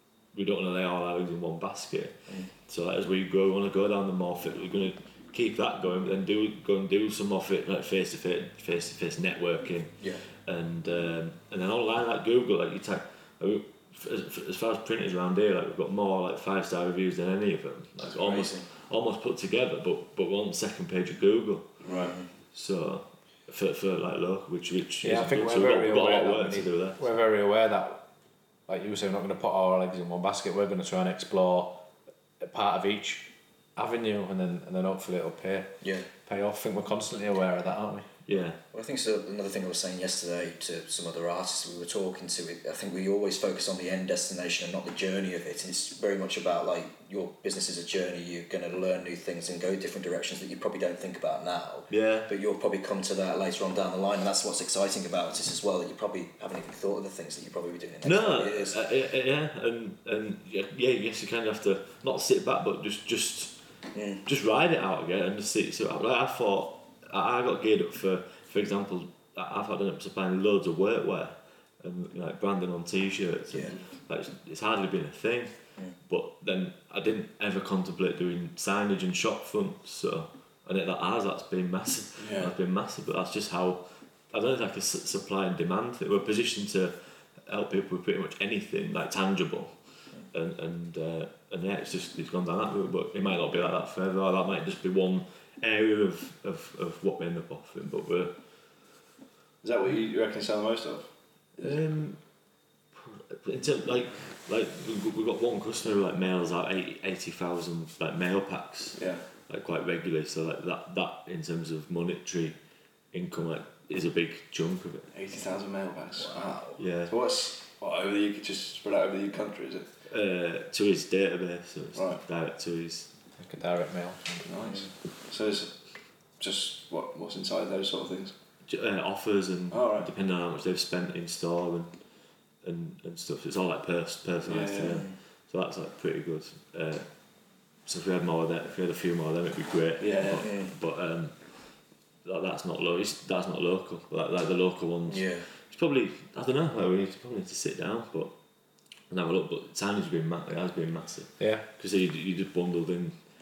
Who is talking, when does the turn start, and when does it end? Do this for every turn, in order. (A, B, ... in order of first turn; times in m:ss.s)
0:00.3-0:02.2 A
0:02.7-0:21.8 A
0:18.0-0:18.7 B
0:21.8-0:22.2 C
0:21.9-0:22.3 B
0:22.5-0:27.0 A
0:25.0-0:28.0 D
0:28.7-0:31.8 D
0:32.4-0:35.7 D
0:35.8-0:36.1 B
0:36.2-0:38.1 D
0:38.3-0:38.6 A
0:38.7-0:58.8 B
0:51.9-0:52.3 A
0:58.0-1:03.6 A
1:03.9-1:04.2 B
1:04.3-1:15.5 A
1:16.1-1:29.7 A
1:22.2-1:22.5 C
1:30.3-1:38.3 A
1:39.6-1:41.8 C
1:41.6-1:42.2 A
1:42.9-1:52.6 A
1:49.0-1:49.2 C
1:53.1-1:55.1 A
1:55.1-1:59.9 C
1:56.2-1:56.7 B
1:56.8-1:57.2 A
2:00.1-2:03.1 A
2:02.0-2:02.2 C
2:03.4-2:04.5 D
2:04.4-2:05.8 C
2:06.4-2:08.3 C
2:08.7-2:11.9 A
2:09.7-2:10.1 C
2:12.6-2:17.1 A
2:14.4-2:15.1 C
2:17.9-2:21.4 A
2:20.0-2:20.5 C
2:20.4-2:20.7 B
2:22.2-2:28.3 A
2:25.1-2:25.4 B
2:29.1-2:33.2 A
2:31.4-2:31.7 D